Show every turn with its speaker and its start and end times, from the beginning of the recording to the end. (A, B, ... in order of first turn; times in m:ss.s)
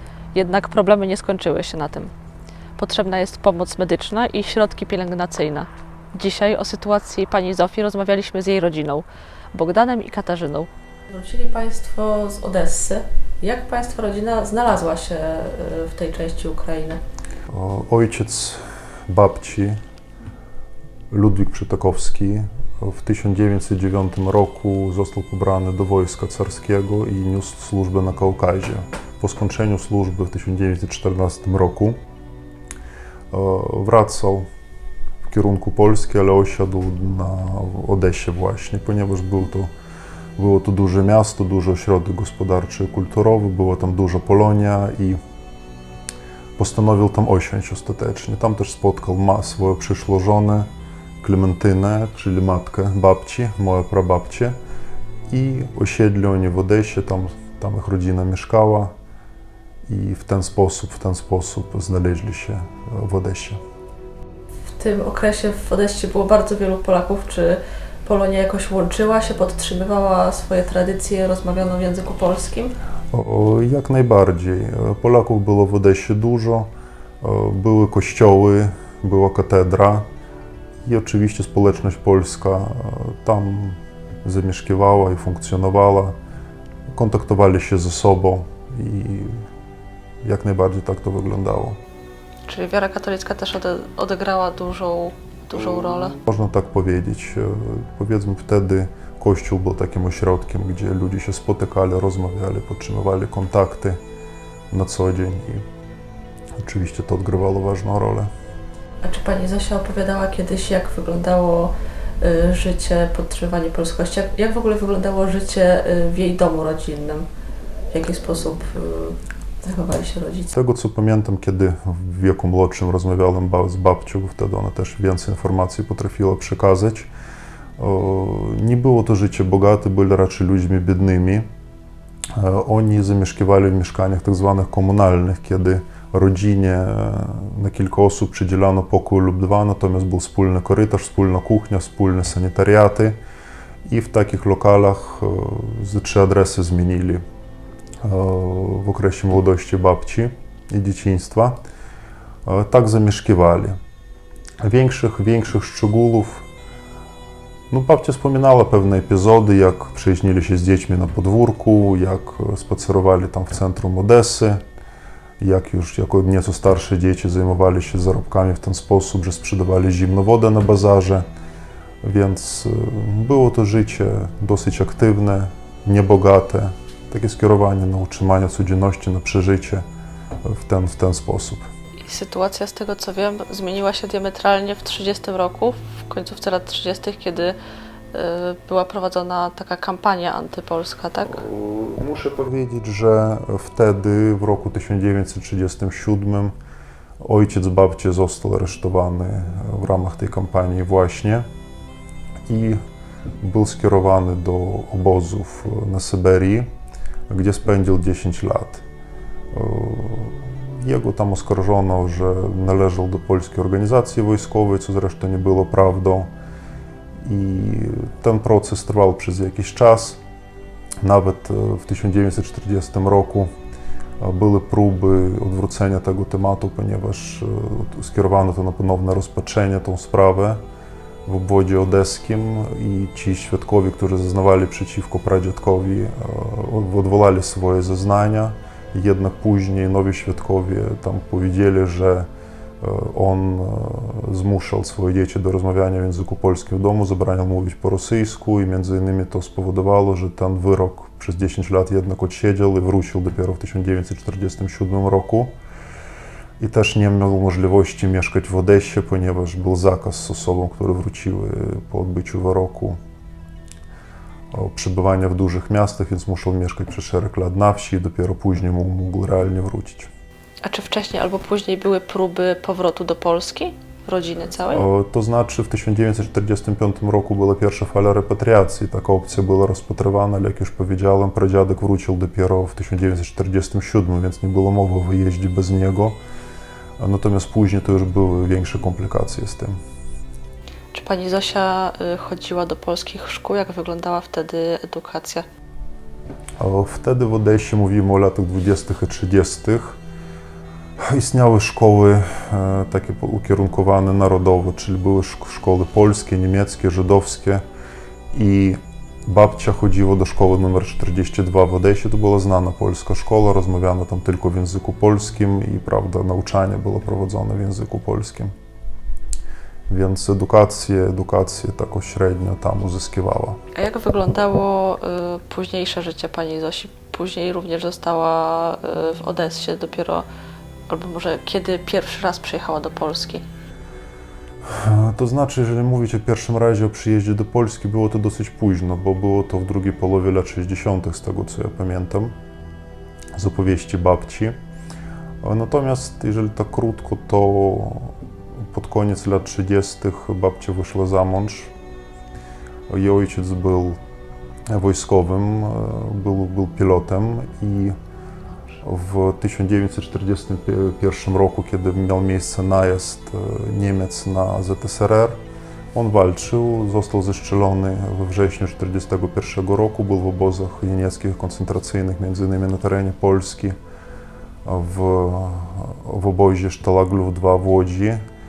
0:00.3-0:02.1 A
0:02.8-0:17.0 A
0:17.5-0:19.8 B
0:21.1-0:32.0 B
0:33.3-0:34.5 B
0:35.2-0:39.7 B
0:40.4-0:45.2 B
0:46.6-0:50.7 B
0:51.2-0:54.5 B
0:55.3-0:58.9 B
0:59.9-1:03.6 B
1:04.7-1:12.7 A
1:13.1-1:16.7 B
1:17.2-1:20.0 B
1:20.8-1:26.2 B
1:26.9-1:29.4 B
1:30.2-1:31.8 B
1:32.5-1:36.2 A
1:35.9-1:44.0 B
1:44.7-1:45.6 B
1:46.6-1:48.3 B
1:49.0-1:57.3 A
1:57.9-2:00.5 A
2:00.5-2:07.1 B
2:07.8-2:11.5 B
2:12.3-2:23.2 B
2:23.8-2:27.2 B
2:28.0-2:31.6 B
2:32.4-2:33.8 B
2:34.6-2:36.5 B
2:37.7-2:44.6 B
2:45.4-2:51.2 B
2:52.0-2:59.8 B
3:00.4-3:01.7 B
3:02.0-3:07.6 A
3:08.1-3:11.4 A
3:11.3-3:16.5 B
3:17.2-3:21.4 B
3:22.5-3:22.8 B
3:23.4-3:26.7 B
3:27.3-3:28.8 B
3:29.5-3:36.3 B
3:37.2-3:40.2 B
3:41.0-3:43.5 B
3:44.2-3:50.6 B
3:51.2-4:02.3 B
4:02.8-4:15.5 B
4:16.6-4:23.0 B
4:24.5-4:30.1 B
4:30.6-4:34.8 A
4:34.7-4:46.2 B
4:47.0-4:49.8 B
4:50.9-4:55.4 A
4:56.6-5:00.0 B
5:01.0-5:07.6 B
5:08.3-5:18.5 B
5:19.9-5:23.6 B
5:23.7-5:30.2 A
5:30.9-5:33.4 A
5:34.6-5:42.3 B
5:43.3-5:44.5 B
5:45.4-5:48.1 B
5:48.7-5:51.7 B
5:52.9-5:54.0 B
5:54.7-5:57.9 B
5:58.8-6:05.4 B
6:05.9-6:13.8 B
6:14.6-6:18.2 B